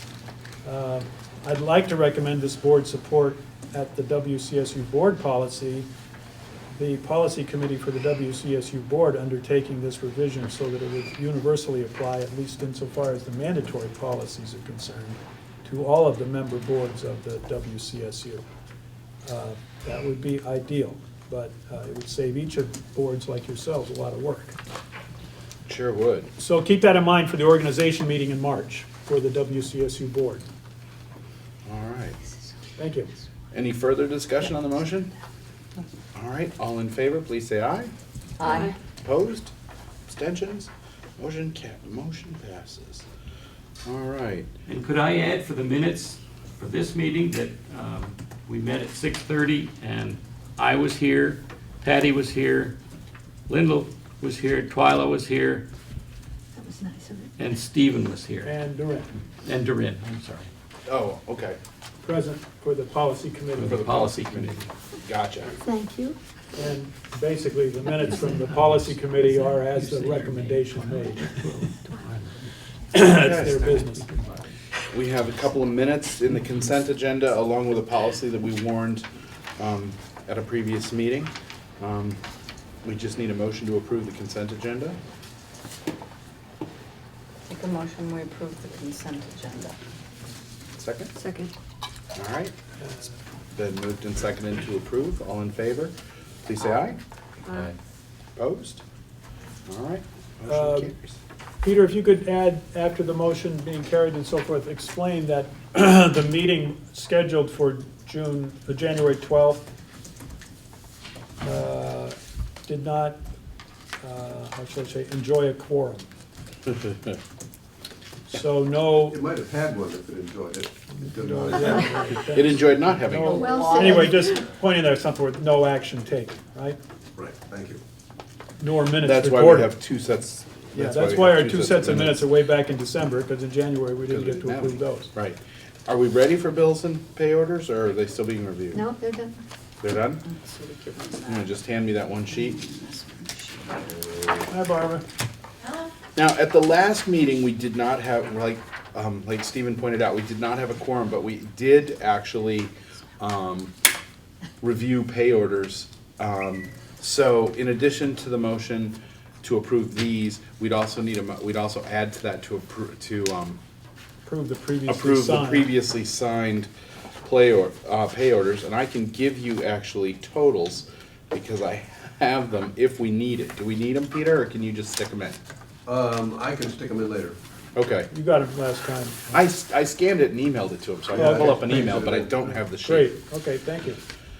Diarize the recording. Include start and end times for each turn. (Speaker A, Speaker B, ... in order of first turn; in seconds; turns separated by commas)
Speaker A: 0.6-5.9, Speaker A: 6.7-18.4, Speaker A: 19.2-24.6, Speaker B: 25.7-26.3, Speaker A: 26.4-30.4, Speaker B: 31.6-32.2, Speaker A: 32.8-33.1, Speaker B: 33.5-35.1, Speaker B: 36.1-37.9, Speaker C: 38.4-38.7, Speaker B: 39.0-39.5, Speaker B: 40.1-43.0, Speaker B: 43.8-44.5, Speaker D: 44.6-52.8, Speaker D: 53.5-55.7, Speaker E: 56.6-57.3, Speaker D: 57.4-58.5, Speaker A: 58.4-59.1, Speaker D: 59.4-60.5, Speaker B: 60.9-61.6, Speaker A: 62.0-63.9, Speaker D: 63.6-64.7, Speaker B: 63.6-65.5, Speaker E: 65.5-66.2, Speaker A: 66.5-71.3, Speaker D: 68.1-72.5, Speaker A: 72.9-74.1, Speaker B: 73.1-73.7, Speaker D: 73.5-74.4, Speaker B: 74.9-79.0, Speaker B: 79.6-82.2, Speaker B: 82.8-85.0, Speaker C: 87.5-89.8, Speaker B: 90.7-91.1, Speaker E: 91.2-91.5, Speaker B: 92.1-92.5, Speaker A: 92.8-93.2, Speaker B: 93.5-95.9, Speaker B: 96.5-97.0, Speaker B: 98.3-98.8, Speaker B: 99.7-101.2, Speaker A: 100.5-100.9, Speaker A: 101.6-109.7, Speaker A: 111.4-113.2, Speaker A: 114.0-116.1, Speaker A: 118.3-119.2, Speaker F: 119.0-122.2, Speaker A: 121.0-126.8, Speaker B: 122.3-123.5, Speaker C: 123.2-124.2, Speaker E: 123.2-124.3, Speaker F: 127.2-127.8, Speaker A: 128.6-129.7, Speaker B: 129.0-132.3, Speaker A: 130.7-135.1, Speaker B: 134.1-138.8, Speaker E: 138.7-139.4, Speaker B: 139.8-140.2, Speaker C: 140.2-141.6, Speaker B: 141.3-142.6, Speaker C: 142.3-144.1, Speaker A: 144.5-145.0, Speaker B: 146.1-153.7, Speaker B: 154.6-163.6, Speaker A: 164.2-165.7, Speaker B: 164.9-166.7, Speaker B: 167.2-175.4, Speaker F: 175.8-177.4, Speaker B: 177.7-178.1, Speaker A: 178.1-179.4, Speaker B: 179.3-183.1, Speaker F: 181.1-182.6, Speaker A: 181.1-181.8, Speaker A: 182.8-184.0